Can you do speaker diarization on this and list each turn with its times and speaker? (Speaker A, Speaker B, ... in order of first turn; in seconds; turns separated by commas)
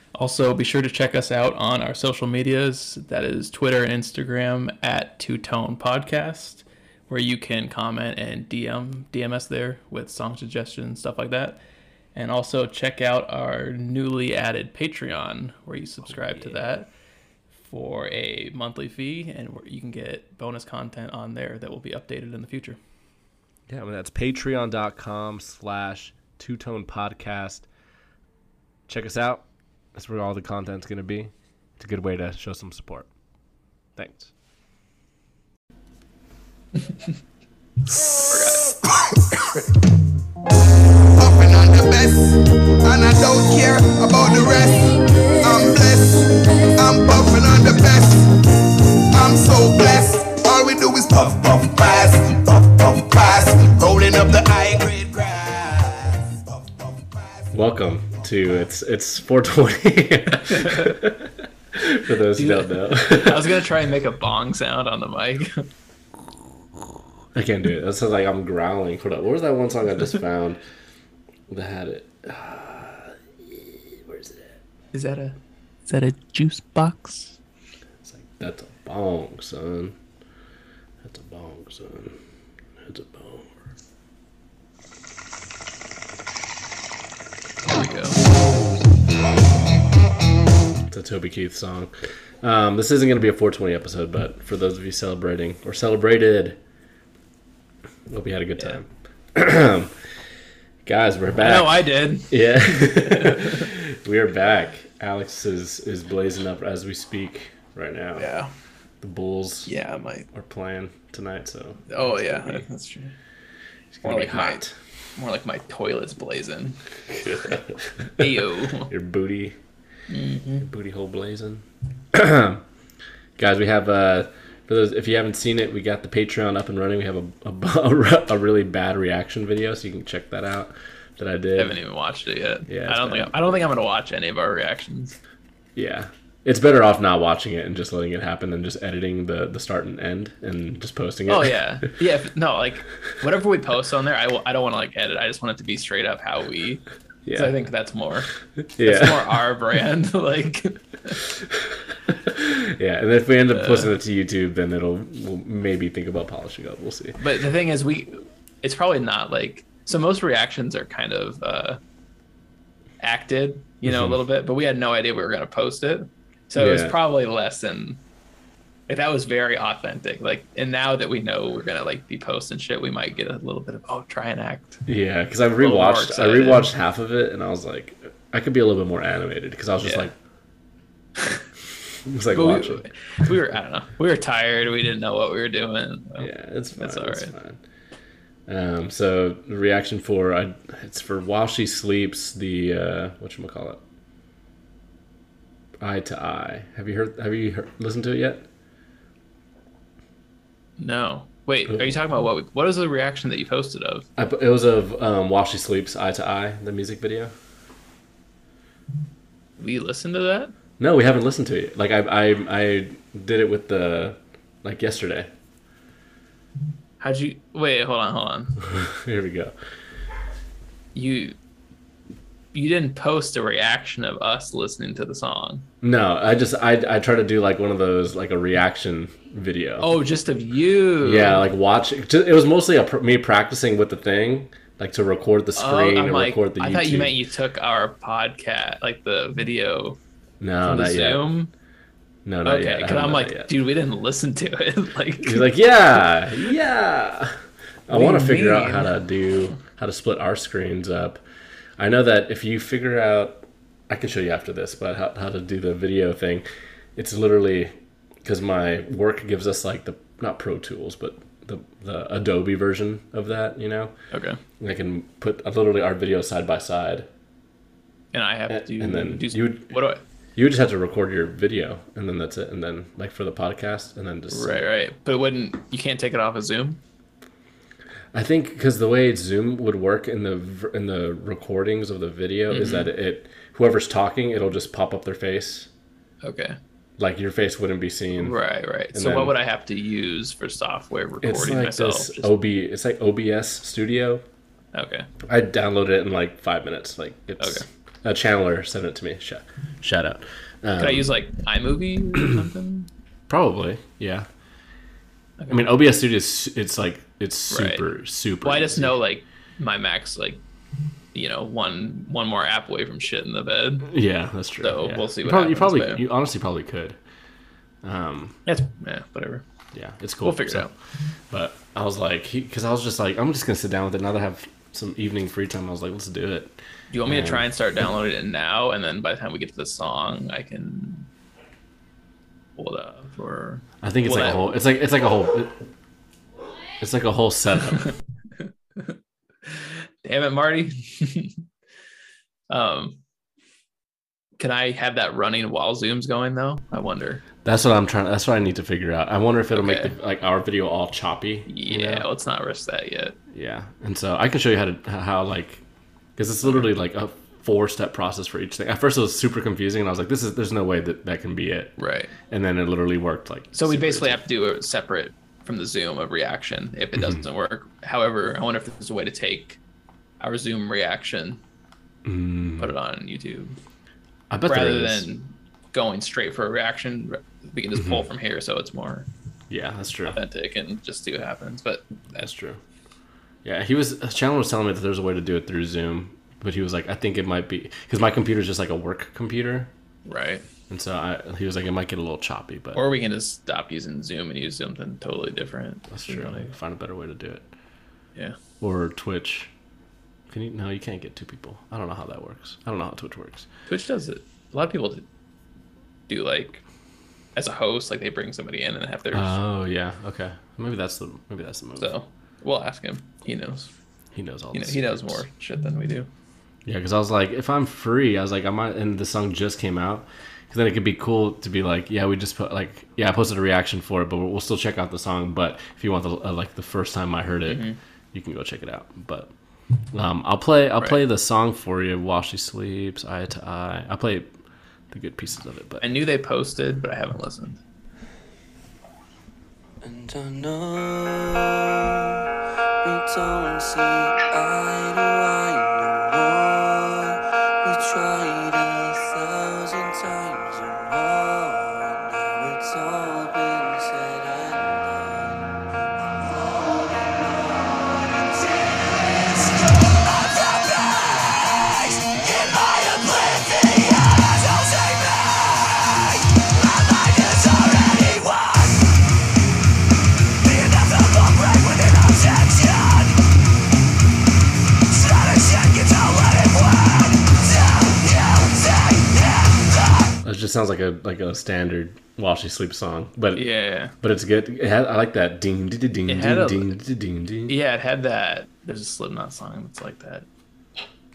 Speaker A: 0.1-11.6, Speaker A: 12.1-16.9, Speaker B: 16.1-16.6, Speaker A: 17.6-22.8, Speaker B: 23.7-27.7, Speaker B: 28.9-33.1, Speaker B: 34.0-34.3, Speaker A: 38.0-38.8, Speaker C: 41.1-48.3, Speaker C: 49.1-56.4, Speaker B: 57.5-63.6, Speaker A: 60.5-61.0, Speaker A: 62.3-65.6, Speaker B: 67.3-70.6, Speaker B: 71.5-74.6, Speaker A: 74.9-77.3, Speaker B: 78.0-80.0, Speaker B: 81.0-82.2, Speaker B: 82.8-83.6, Speaker A: 87.7-88.2, Speaker B: 90.9-96.6, Speaker B: 98.1-100.0, Speaker B: 100.8-108.3, Speaker A: 101.4-103.7, Speaker A: 108.2-108.5, Speaker B: 109.0-109.7, Speaker A: 109.7-110.3, Speaker B: 110.3-112.6, Speaker A: 111.9-113.1, Speaker B: 113.9-114.7, Speaker A: 114.0-114.6, Speaker A: 115.2-116.8, Speaker B: 117.1-119.6, Speaker A: 118.2-118.9, Speaker A: 120.1-120.7, Speaker B: 120.6-122.6, Speaker B: 123.4-131.8, Speaker A: 131.6-135.2, Speaker B: 132.7-133.7, Speaker B: 135.7-141.9, Speaker A: 141.3-151.2, Speaker B: 147.2-147.6, Speaker B: 148.8-149.4, Speaker B: 151.5-157.2, Speaker A: 153.5-153.9, Speaker A: 157.2-161.8, Speaker A: 163.0-168.0, Speaker B: 163.8-164.2, Speaker B: 166.5-167.0, Speaker A: 168.9-174.8, Speaker B: 174.8-180.1, Speaker A: 175.6-176.7, Speaker A: 179.8-180.1, Speaker B: 182.0-182.8, Speaker A: 182.3-187.3, Speaker B: 186.2-187.6, Speaker B: 188.5-193.8, Speaker B: 195.8-198.5, Speaker A: 200.8-204.1, Speaker B: 201.7-201.9, Speaker B: 204.2-207.3, Speaker A: 209.6-210.5, Speaker B: 210.8-215.3, Speaker A: 217.0-218.6, Speaker B: 218.6-219.5, Speaker A: 220.9-221.4, Speaker A: 222.5-225.7, Speaker B: 225.8-229.9, Speaker A: 229.8-231.4, Speaker B: 231.0-237.2, Speaker A: 235.5-240.0, Speaker B: 240.4-241.2, Speaker A: 240.6-241.5, Speaker B: 242.2-243.5, Speaker A: 242.4-245.5, Speaker B: 245.2-251.2, Speaker A: 247.9-249.0, Speaker B: 251.8-263.9, Speaker A: 264.1-264.4, Speaker B: 264.6-267.1, Speaker A: 268.1-270.0, Speaker B: 268.5-269.8, Speaker B: 270.3-274.7, Speaker A: 274.3-276.8, Speaker B: 278.1-285.7, Speaker A: 282.5-282.9, Speaker A: 286.2-286.6, Speaker B: 287.0-288.4, Speaker A: 288.2-292.4, Speaker B: 288.9-289.4, Speaker B: 291.2-294.2, Speaker A: 294.7-295.1, Speaker B: 295.2-301.1, Speaker A: 297.4-297.6, Speaker A: 300.8-302.9, Speaker B: 303.3-304.3, Speaker A: 305.4-305.7, Speaker B: 305.5-309.0, Speaker A: 307.5-307.9, Speaker A: 308.4-310.4, Speaker A: 311.1-313.9, Speaker B: 313.9-317.0, Speaker A: 314.6-316.0, Speaker B: 317.8-318.4, Speaker A: 318.4-319.4, Speaker B: 319.7-320.7, Speaker A: 320.2-320.7, Speaker B: 321.3-327.5, Speaker A: 326.9-331.1, Speaker A: 332.6-334.5, Speaker B: 333.8-335.7, Speaker B: 336.8-337.9, Speaker A: 339.5-341.4, Speaker A: 342.5-343.0, Speaker A: 344.4-347.2, Speaker B: 347.4-352.1, Speaker A: 349.5-349.9, Speaker A: 351.5-353.1, Speaker B: 353.3-355.6, Speaker B: 356.1-364.2, Speaker A: 361.8-362.1, Speaker A: 363.5-369.6, Speaker A: 370.2-371.4, Speaker B: 372.0-372.7, Speaker A: 372.6-373.6, Speaker B: 374.3-375.1, Speaker A: 374.4-379.1, Speaker B: 377.7-378.1, Speaker B: 379.5-380.2, Speaker A: 380.1-382.3, Speaker B: 382.2-382.6, Speaker B: 383.4-389.7, Speaker A: 390.0-390.4, Speaker B: 390.7-392.8, Speaker A: 392.7-396.5, Speaker B: 395.9-397.5, Speaker B: 398.6-399.5, Speaker B: 400.3-403.5, Speaker A: 403.7-405.1, Speaker A: 406.1-406.6, Speaker A: 407.3-409.4, Speaker B: 409.1-411.9, Speaker A: 411.8-413.7, Speaker B: 414.1-415.2, Speaker A: 414.5-416.1, Speaker B: 416.6-429.3, Speaker A: 427.5-427.8, Speaker B: 429.9-434.3, Speaker B: 434.9-435.9, Speaker A: 435.8-437.6, Speaker D: 439.8-442.2, Speaker D: 442.9-447.1, Speaker D: 447.6-455.4, Speaker D: 457.7-465.9, Speaker D: 466.6-468.8, Speaker D: 470.4-473.1, Speaker D: 475.0-479.1, Speaker B: 480.2-483.5, Speaker A: 483.3-483.9, Speaker B: 484.0-487.6, Speaker A: 486.1-486.7, Speaker A: 487.5-490.2